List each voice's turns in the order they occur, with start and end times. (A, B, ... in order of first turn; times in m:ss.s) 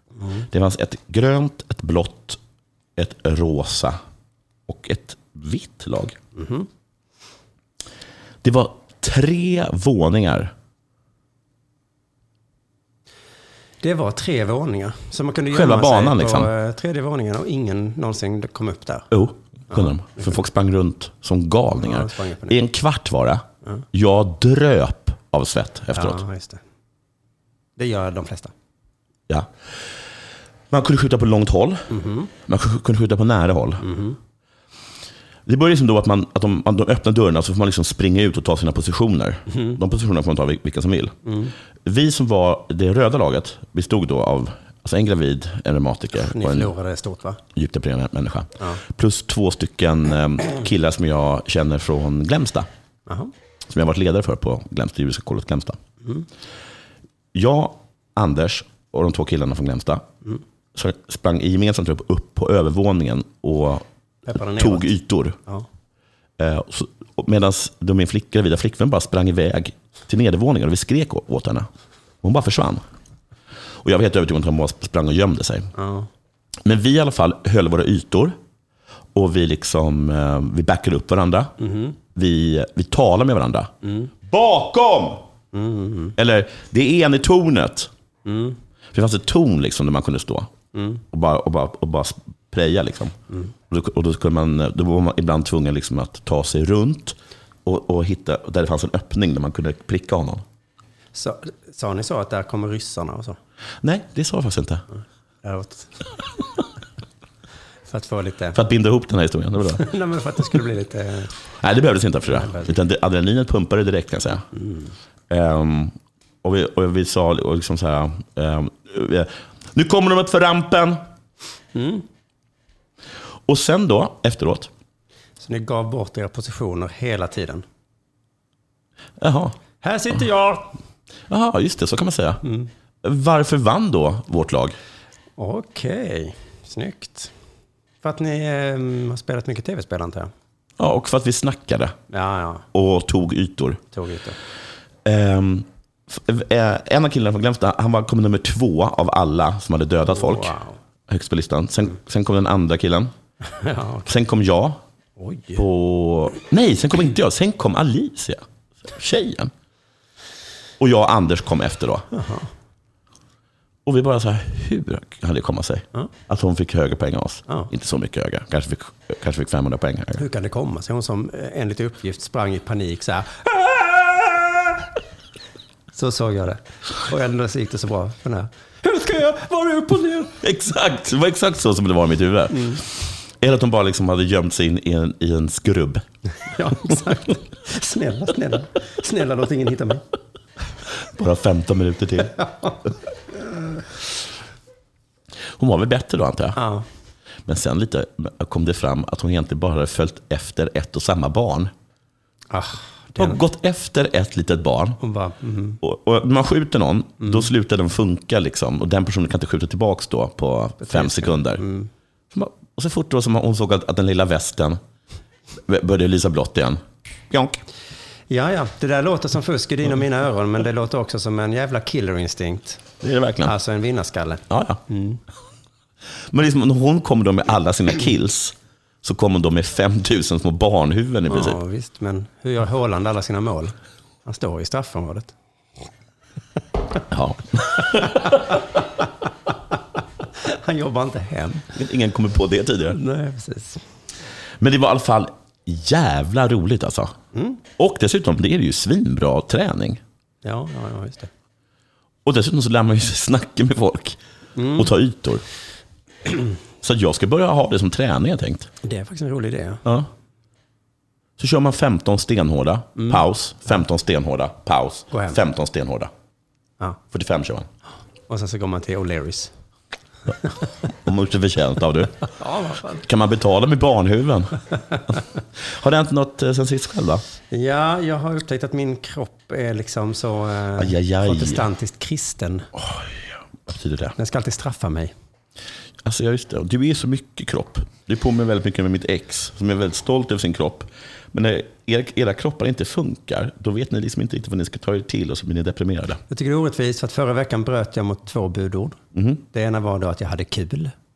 0:00.2-0:00.4 A
0:00.5-0:02.4 B
0:03.0-0:04.0 B
0:04.7-0:06.2 B
0:06.3-0:06.7 A
0:08.4-0:10.5 B
0:13.8-0:19.1 A
0:15.5-0:16.5 B
0:19.1-0:26.2 B
0:19.7-0:20.2 A
0:21.7-0:22.5 A
0:25.9-0:26.6 A
0:27.8-0:28.5 A
0:30.7-0:31.9 B
0:31.9-0:32.3 A
0:32.4-0:33.8 B
0:33.8-0:34.2 A
0:35.4-0:46.7 B
0:39.5-0:39.8 A
0:41.2-0:41.5 A
0:46.2-0:47.4 A
0:47.5-0:52.7 B
0:53.7-0:55.8 B
0:57.3-1:00.0 B
1:00.7-1:03.8 B
1:04.2-1:04.9 A
1:04.5-1:05.4 B
1:06.4-1:11.7 B
1:12.2-1:12.8 B
1:13.8-1:15.7 B
1:15.8-1:16.1 A
1:16.6-1:18.4 B
1:19.1-1:21.5 B
1:21.6-1:21.9 A
1:22.1-1:23.7 B
1:23.8-1:24.1 A
1:24.2-1:25.3 B
1:25.5-1:26.1 A
1:26.2-1:27.9 B
1:28.2-1:28.6 A
1:28.9-1:30.5 B
1:30.7-1:31.0 A
1:31.1-1:33.2 B
1:33.7-1:40.4 B
1:41.1-1:43.4 A
1:43.8-1:44.8 B
1:45.4-1:45.9 A
1:47.9-1:48.6 A
1:48.5-1:49.8 B
1:49.8-1:51.3 A
1:51.6-1:54.4 B
1:52.3-1:52.8 A
1:54.6-1:54.9 A
1:55.3-2:01.0 B
2:01.7-2:02.0 A
2:03.5-2:04.7 B
2:05.4-2:07.6 A
2:09.2-2:09.6 B
2:09.8-2:10.7 A
2:11.3-2:12.4 B
2:12.4-2:12.7 A
2:13.0-2:14.8 B
2:15.4-2:17.3 A
2:18.0-2:20.3 A
2:20.8-2:22.0 B
2:22.1-2:22.6 A
2:22.7-2:23.8 B
2:23.9-2:24.4 A
2:25.0-2:30.5 B
2:30.1-2:30.8 A
2:31.1-2:33.1 B
2:33.6-2:34.1 A
2:34.1-2:34.8 B
2:35.2-2:35.6 A
2:35.6-2:39.5 B
2:40.8-2:42.1 B
2:42.1-2:42.5 A
2:43.8-2:50.2 B
2:50.2-2:53.5 A
2:55.9-3:00.3 A
3:00.4-3:02.8 B
3:02.5-3:02.8 A
3:03.4-3:06.0 B
3:06.5-3:10.0 A
3:11.1-3:12.9 B
3:15.6-3:16.6 B
3:16.6-3:16.8 A
3:17.4-3:21.7 B
3:22.5-3:23.4 A
3:23.2-3:25.0 B
3:25.0-3:25.8 A
3:25.8-3:31.6 B
3:27.2-3:27.5 A
3:30.8-3:31.9 A
3:32.3-3:34.8 B
3:35.7-3:37.6 B
3:38.3-3:42.8 A
3:43.0-3:43.5 B
3:43.4-3:45.2 A
3:44.5-3:44.8 B
3:46.3-3:51.6 B
3:51.3-3:55.3 A
3:57.1-3:58.4 B
4:00.4-4:01.7 A
4:01.7-4:03.0 B
4:02.9-4:03.8 A
4:04.6-4:07.2 B
4:07.3-4:07.6 A
4:07.8-4:10.0 B
4:10.4-4:11.3 A
4:12.2-4:14.2 B
4:14.6-4:14.9 A
4:14.7-4:15.4 B
4:16.8-4:18.7 B
4:18.8-4:19.8 A
4:19.8-4:20.1 B
4:21.4-4:26.1 B
4:23.0-4:23.2 A
4:25.1-4:25.4 A
4:27.1-4:27.7 B
4:28.3-4:29.5 A
4:31.0-4:32.2 B
4:32.4-4:33.0 A
4:33.0-4:34.6 B
4:35.6-4:37.2 B
4:37.5-4:42.7 A
4:40.8-4:41.7 B
4:42.8-4:44.1 B
4:44.2-4:45.1 A
4:46.0-4:56.2 B
4:56.3-4:59.0 A
4:59.1-4:59.4 B
4:59.5-5:00.9 A